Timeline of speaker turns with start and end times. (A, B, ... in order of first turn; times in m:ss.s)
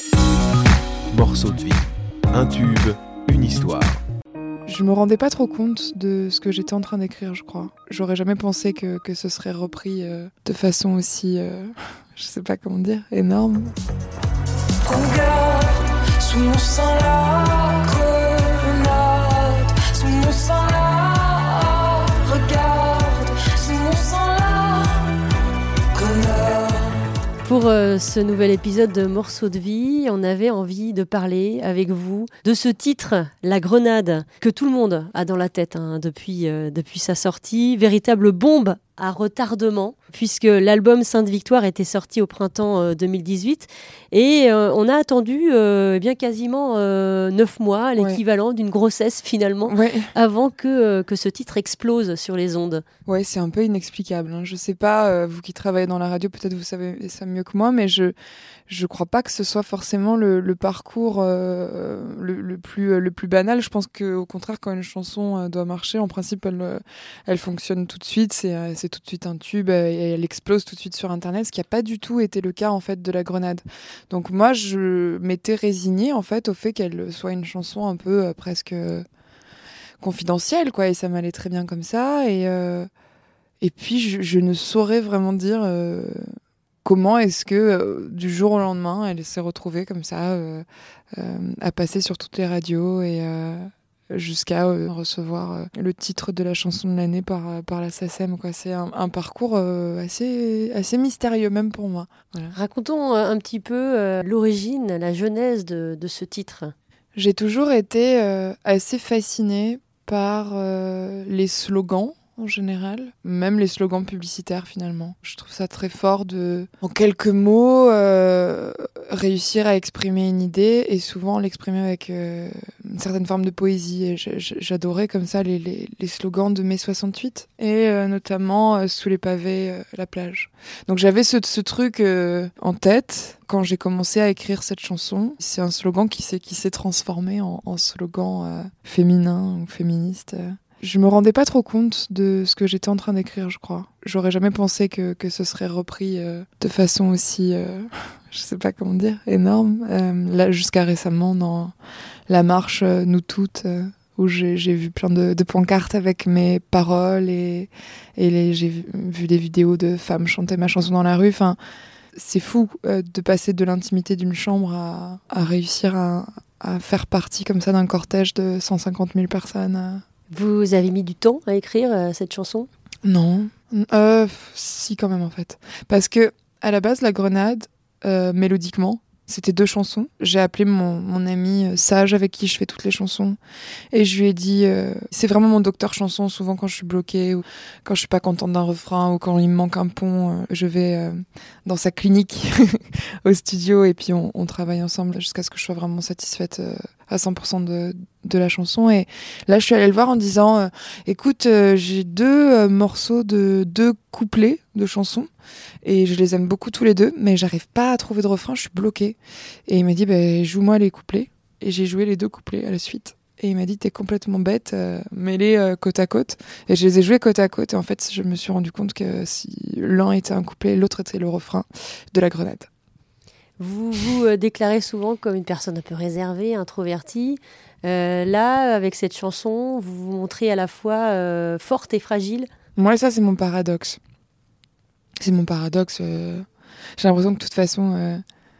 0:01.1-0:04.0 A
0:04.6-0:13.7 B
0:14.8-0:25.1 C
0:25.9-0:27.0 C
0:27.4-0:52.8 D
0:49.7-0:50.1 B
0:53.0-0:58.1 B
0:58.7-1:19.0 B
1:20.0-1:22.9 B
1:23.6-1:26.3 B
1:26.8-1:42.5 B
1:42.5-1:46.7 D
1:47.2-2:31.7 B
2:32.3-2:41.6 B
2:42.1-2:50.0 B
2:50.3-2:52.7 D
2:53.0-3:03.4 B
3:03.9-3:25.3 B
3:25.8-3:42.7 B
3:43.6-3:52.5 D
3:52.8-3:54.0 B
3:55.2-3:56.4 B
3:57.0-3:58.2 B